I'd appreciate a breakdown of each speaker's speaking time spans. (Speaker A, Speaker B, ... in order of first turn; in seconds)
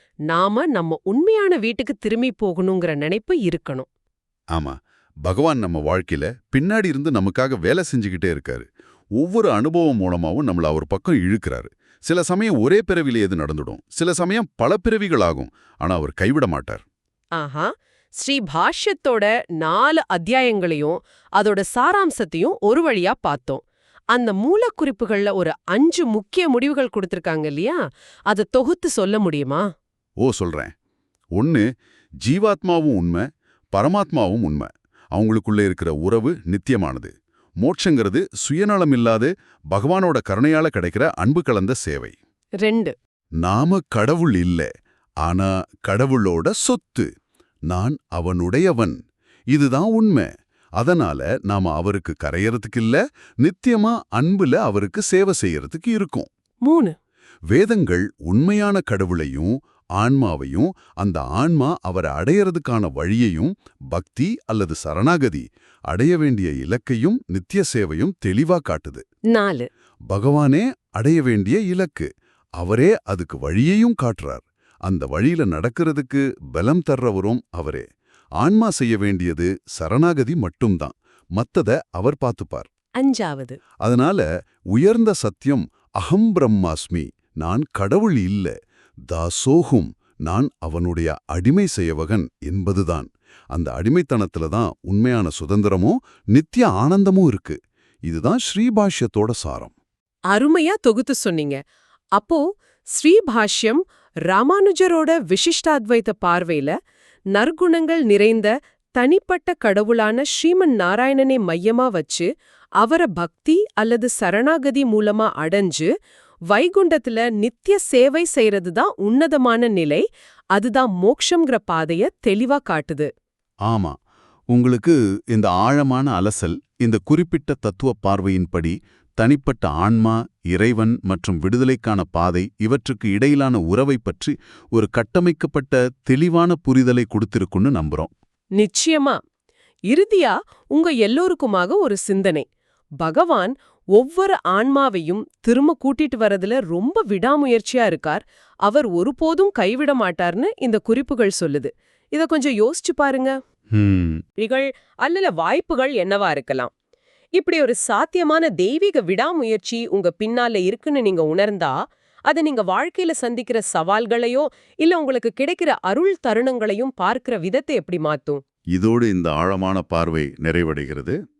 Speaker A: 0.3-3.9, 17.4-23.6, 24.1-27.8, 28.3-29.6, 42.6-42.9, 56.6-56.9, 69.3-69.7, 83.0-83.6, 100.3-101.6, 102.2-106.7, 107.3-112.3, 112.8-115.9, 116.5-123.1, 138.6-139.2, 139.9-142.4, 143.0-153.4, 154.4-156.7, 157.4-161.7, 162.3-168.4
Speaker B: 4.5-8.7, 9.2-16.8, 30.2-30.7, 31.4-31.6, 32.2-42.1, 43.4-44.7, 45.2-47.1, 47.7-48.9, 49.5-56.3, 57.5-69.0, 70.1-77.8, 78.4-82.7, 83.8-88.5, 89.1-99.7, 123.7-124.0, 124.5-138.1, 153.7-154.2, 168.7-171.2